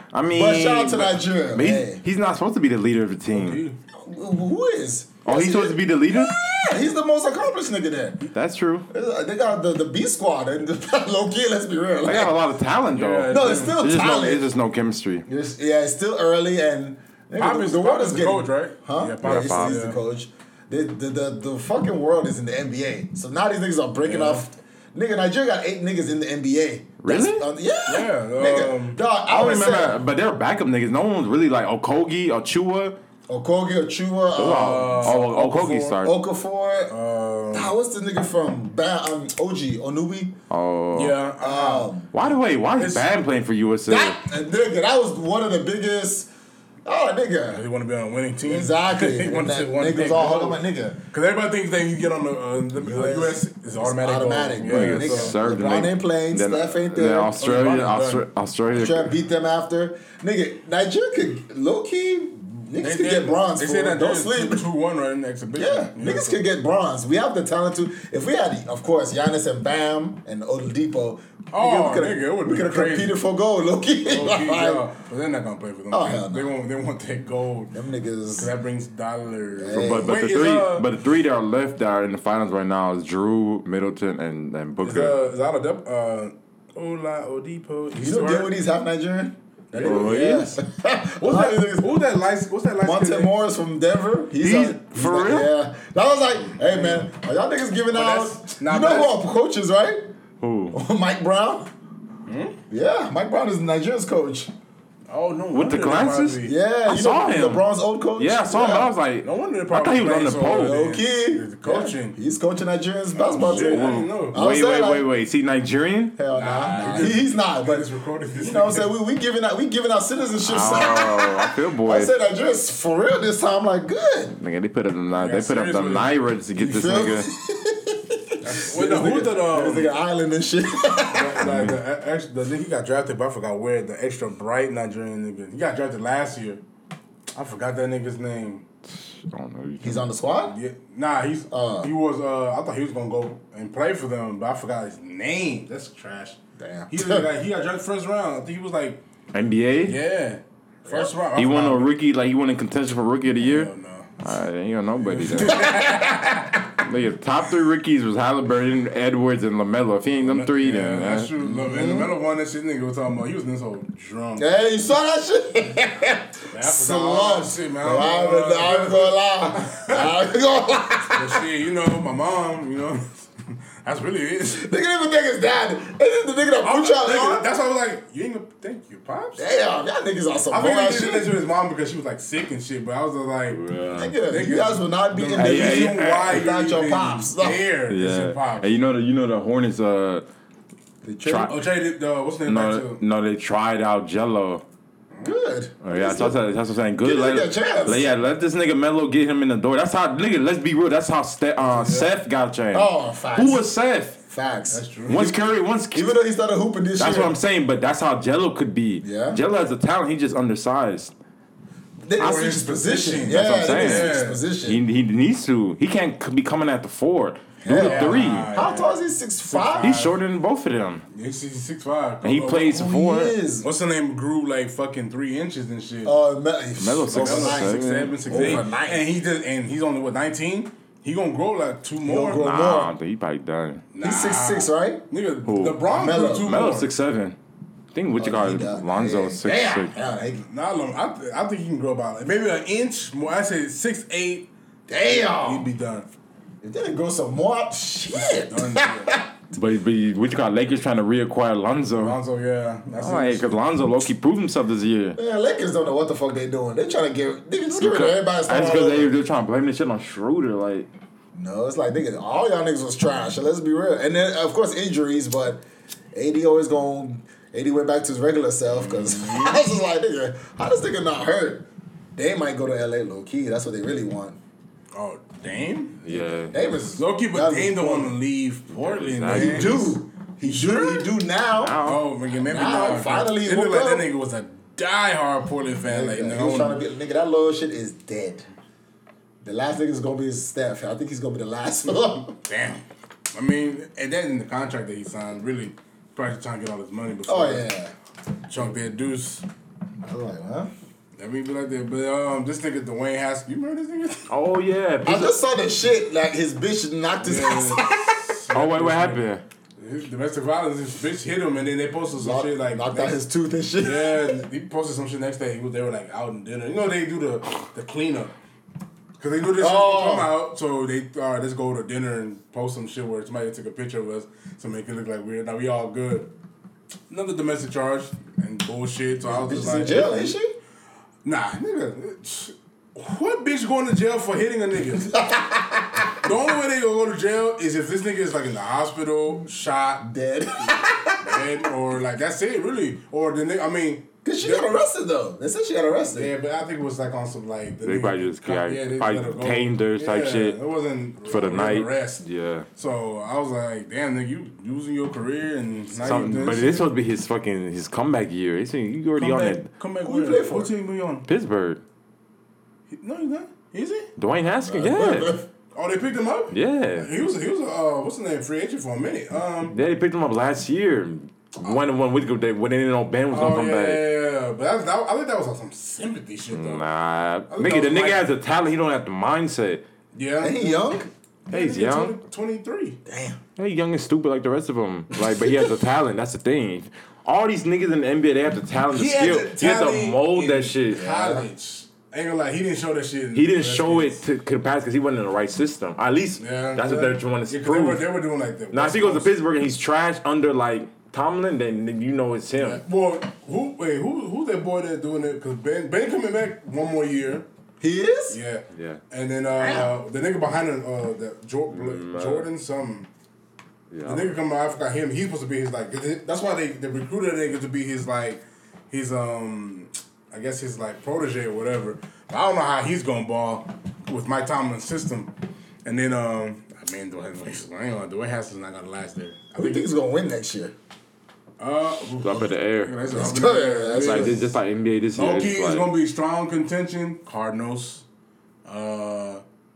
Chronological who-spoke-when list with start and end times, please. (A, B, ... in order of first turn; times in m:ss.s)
0:00.1-0:03.6 A
0:00.3-0:02.0 B
0:03.3-0:03.8 C
0:03.9-0:08.3 B
0:05.2-0:06.4 A
0:08.3-0:08.9 A
0:08.9-0:12.4 B
0:12.0-0:15.2 A
0:12.9-0:13.8 C
0:13.3-0:14.5 B
0:15.3-0:30.0 B
0:17.4-0:20.0 C
0:19.2-0:19.8 A
0:24.0-0:24.4 C
0:27.0-0:27.5 A
0:27.9-0:29.0 C
0:29.3-0:33.0 A
0:33.3-0:35.2 B
0:34.4-0:36.1 A
0:34.4-0:36.0 C
0:36.0-0:37.0 B
0:36.9-0:37.7 C
0:37.5-0:40.3 B
0:40.5-0:41.2 A
0:40.9-0:41.9 C
0:41.4-0:42.1 B
0:42.1-0:44.2 A
0:42.8-0:43.2 C
0:43.9-0:46.3 B
0:46.8-0:47.6 B
0:47.5-0:50.6 C
0:48.4-0:51.0 B
0:51.1-0:55.4 C
0:52.8-0:57.3 B
0:54.6-0:59.1 A
0:57.3-0:58.3 C
0:58.7-1:04.7 B
1:02.8-1:06.4 C
1:05.5-1:14.8 B
1:11.5-1:13.2 C
1:14.0-1:17.7 C
1:15.9-1:16.6 B
1:17.7-1:18.5 B
1:18.4-1:20.9 C
1:19.6-1:20.2 B
1:19.7-1:25.2 A
1:24.8-1:28.5 C
1:28.0-1:32.0 B
1:29.7-1:30.4 C
1:29.8-1:30.6 A
1:31.2-1:33.3 C
1:32.8-1:40.1 B
1:34.4-1:35.5 A
1:36.6-1:37.1 C
1:37.9-1:39.2 C
1:40.4-1:40.8 A
1:40.7-1:41.7 B
1:42.3-1:42.6 C
1:42.7-1:44.5 B
1:45.1-1:46.5 C
1:45.5-1:47.6 A
1:46.4-1:48.9 B
1:48.2-1:50.8 A
1:49.2-1:52.2 C
1:50.6-1:55.1 B
1:53.1-1:54.4 C
1:53.4-1:56.2 A
1:56.2-2:04.3 B
1:56.3-1:58.9 C
2:00.4-2:02.1 A
2:04.3-2:07.3 A
2:05.1-2:06.1 C
2:06.6-2:11.7 B
2:08.4-2:09.9 C
2:11.1-2:16.6 C
2:17.3-2:18.6 C
2:18.9-2:20.1 A
2:19.8-2:20.6 B
2:20.5-2:26.4 C
2:21.5-2:21.9 B
2:26.6-2:27.3 B
2:26.9-2:29.0 C
2:29.3-2:30.0 A
2:29.8-2:31.9 C
2:31.3-2:35.8 A
2:33.4-2:34.2 C
2:35.0-2:36.5 C
2:35.5-2:36.4 B
2:36.8-2:41.3 A
2:40.2-2:44.5 C
2:41.5-2:42.1 B
2:44.4-2:51.4 B
2:46.5-2:50.1 C
2:51.1-2:53.1 C
2:53.8-2:54.7 C
2:54.5-2:57.5 B
2:56.6-2:59.5 C
2:59.4-3:01.4 B
3:00.5-3:03.6 C
3:03.5-3:04.2 A
3:04.0-3:07.6 B
3:04.3-3:08.7 C
3:05.3-3:06.4 A
3:07.9-3:10.2 A
3:11.0-3:11.5 B
3:11.2-3:11.5 A
3:11.4-3:13.0 C
3:12.4-3:14.6 A
3:15.2-3:16.4 B
3:15.8-3:24.2 A
3:17.0-3:18.1 B
3:21.6-3:22.1 C
3:22.7-3:23.7 B
3:24.3-3:25.4 B
3:24.7-3:25.3 C
3:25.1-3:26.2 A
3:25.9-3:27.4 B
3:27.0-3:31.1 A
3:29.0-3:29.4 B
3:32.0-3:34.8 B
3:32.2-3:34.4 C
3:33.2-3:38.6 A
3:37.6-3:40.0 B
3:37.7-3:40.2 C
3:39.8-3:41.0 A
3:41.1-3:42.8 C
3:42.2-3:43.4 A
3:42.7-3:43.7 B
3:43.6-3:46.1 C
3:46.0-3:49.1 B
3:46.8-3:48.6 A
3:47.1-3:52.4 C
3:52.0-3:52.9 B
3:52.4-3:53.8 A
3:53.9-3:56.9 C
3:54.0-3:55.0 B
3:55.4-3:55.8 A
3:55.9-3:56.6 B
3:56.4-3:57.4 A
3:57.9-3:59.9 A
3:58.2-4:00.5 B
4:00.5-4:04.5 C
4:04.9-4:05.7 B
4:05.0-4:06.1 C
4:06.6-4:09.3 B
4:08.2-4:09.2 C
4:09.5-4:12.2 A
4:11.9-4:13.5 C
4:13.0-4:15.2 A
4:15.2-4:19.1 B
4:17.8-4:20.9 A
4:21.3-4:25.6 B
4:26.1-4:34.4 B
4:28.8-4:29.6 C
4:34.9-4:36.0 C
4:36.0-4:36.6 A
4:36.1-4:38.1 B
4:37.0-4:41.1 C
4:38.7-4:39.8 A
4:39.3-4:41.8 B
4:41.6-4:42.0 A
4:41.8-4:46.8 C
4:42.4-4:44.1 B
4:45.9-4:48.4 B
4:49.4-4:52.4 B
4:52.4-4:57.7 C
4:57.3-4:57.9 B
4:58.5-4:59.4 C
5:00.0-5:00.7 B
5:01.2-5:04.3 C
5:04.3-5:05.3 A
5:05.0-5:08.3 B
5:07.2-5:09.2 C
5:08.5-5:09.4 A
5:09.8-5:13.2 C
5:12.2-5:14.4 B
5:13.8-5:18.3 C
5:19.2-5:26.3 C
5:19.6-5:20.3 B
5:27.1-5:30.4 C
5:29.2-5:30.5 B
5:31.2-5:35.2 C
5:35.1-5:36.2 B
5:36.2-5:40.1 C
5:40.0-5:41.4 B
5:41.2-5:44.7 C
5:44.2-5:46.3 B
5:46.1-5:52.2 C
5:47.8-5:50.6 A
5:51.2-5:52.6 A
5:52.8-5:56.9 C
5:56.0-5:59.7 A
5:59.2-6:01.3 C
6:00.0-6:00.7 B
6:01.2-6:01.8 A
6:02.9-6:04.1 C
6:04.2-6:05.4 A
6:04.6-6:05.5 B
6:05.7-6:09.8 C
6:06.5-6:07.1 A
6:09.7-6:14.1 A
6:13.3-6:16.8 C
6:16.5-6:19.8 A
6:17.5-6:18.3 C
6:20.1-6:23.0 C
6:20.4-6:21.1 B
6:21.5-6:22.2 A
6:23.0-6:23.4 B
6:23.6-6:31.0 A
6:28.9-6:34.2 C
6:30.9-6:31.5 B
6:33.3-6:38.1 A
6:36.4-6:39.3 C
6:38.7-6:42.8 A
6:42.6-6:47.4 C
6:47.8-6:48.4 B
6:48.3-6:53.1 C
6:48.7-6:49.0 A
6:51.7-6:52.5 A
6:53.9-6:54.4 A
6:54.0-7:05.3 C
7:05.8-7:09.8 C
7:09.5-7:10.7 B
7:11.6-7:14.5 C
7:12.2-7:13.0 A
7:13.1-7:14.4 B
7:13.9-7:15.9 A
7:15.1-7:18.0 C
7:18.6-7:19.4 C